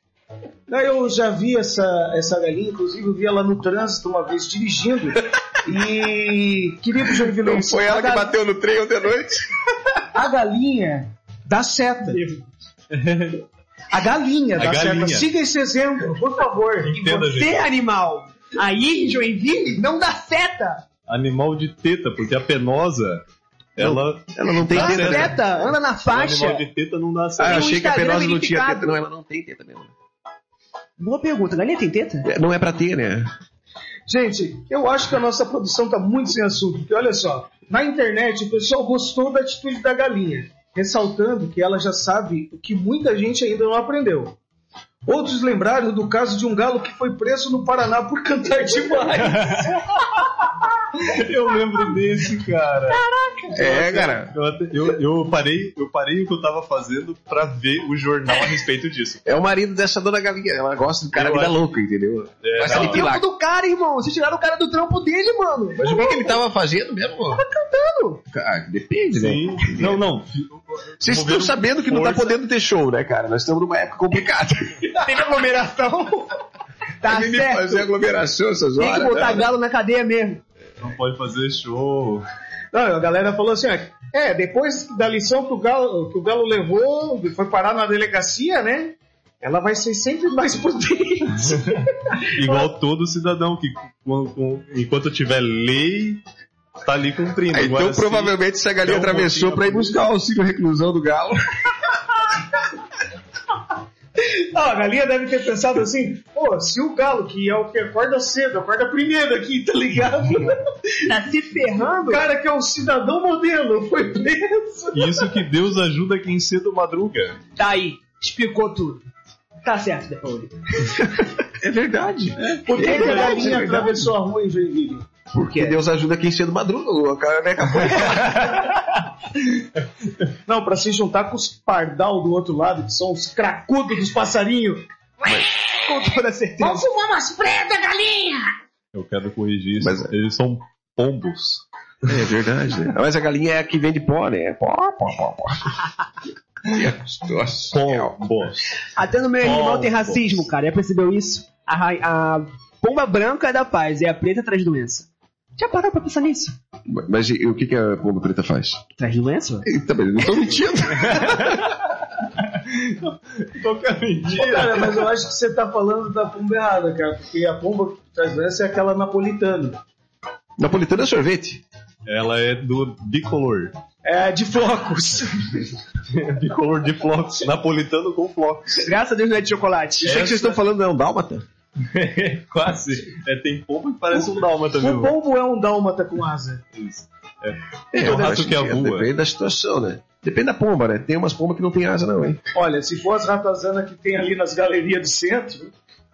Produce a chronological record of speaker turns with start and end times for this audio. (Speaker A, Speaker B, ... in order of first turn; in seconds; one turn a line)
Speaker A: 0.7-8.3
Speaker B: 7.2-9.4
Speaker A: 10.1-12.2
Speaker C: 12.1-12.4
Speaker D: 12.9-13.4
Speaker A: 13.9-17.4
Speaker D: 14.6-15.3
Speaker D: 16.8-17.7
Speaker C: 17.3-20.8
Speaker D: 21.1-23.2
Speaker D: 23.8-25.4
Speaker B: 23.8-25.4
Speaker C: 24.7-26.6
Speaker D: 26.0-27.8
Speaker B: 27.4-29.9
Speaker C: 27.4-29.0
Speaker C: 31.0-32.3
Speaker B: 32.2-33.3
Speaker A: 34.1-44.4
Speaker A: 45.0-49.8
Speaker D: 49.3-49.8
Speaker D: 51.0-53.0
Speaker C: 52.9-53.6
Speaker B: 53.5-54.3
Speaker D: 53.5-59.2
Speaker B: 59.2-63.2
Speaker D: 61.1-61.7
Speaker D: 62.4-63.1
Speaker C: 62.6-66.4
Speaker B: 65.8-67.4
Speaker C: 67.3-68.2
Speaker B: 68.3-70.0
Speaker D: 69.1-72.4
Speaker B: 71.0-74.9
Speaker C: 75.0-76.3
Speaker C: 77.0-77.9
Speaker B: 77.0-79.5
Speaker C: 78.8-80.4
Speaker D: 80.8-82.2
Speaker A: 82.7-92.7
Speaker D: 91.5-96.2
Speaker D: 96.8-100.0
Speaker B: 97.5-101.4
Speaker A: 104.2-111.0
Speaker C: 111.0-112.2
Speaker A: 112.0-115.3
Speaker D: 114.9-117.4
Speaker C: 117.6-119.0
Speaker C: 119.6-121.3
Speaker B: 121.6-124.0
Speaker A: 122.7-125.1
Speaker C: 122.7-123.9
Speaker B: 125.3-128.5
Speaker C: 125.5-125.8
Speaker C: 128.0-128.6
Speaker A: 130.4-134.8
Speaker C: 135.8-136.9
Speaker A: 136.6-138.5
Speaker D: 138.9-141.6
Speaker B: 139.8-140.1
Speaker B: 142.0-145.8
Speaker B: 146.6-148.2
Speaker D: 147.7-148.8
Speaker C: 148.9-156.5
Speaker D: 149.4-150.4
Speaker B: 156.9-158.8
Speaker C: 159.0-159.7
Speaker B: 159.6-161.7
Speaker D: 161.0-165.0
Speaker A: 164.3-169.8
Speaker B: 170.6-171.6
Speaker D: 172.1-173.7
Speaker A: 174.0-175.7
Speaker D: 176.1-178.9
Speaker C: 178.8-180.2
Speaker B: 180.0-181.4
Speaker D: 180.0-180.6
Speaker D: 181.8-185.1
Speaker A: 184.1-186.6
Speaker D: 186.7-189.1
Speaker B: 187.9-192.4
Speaker A: 192.5-195.7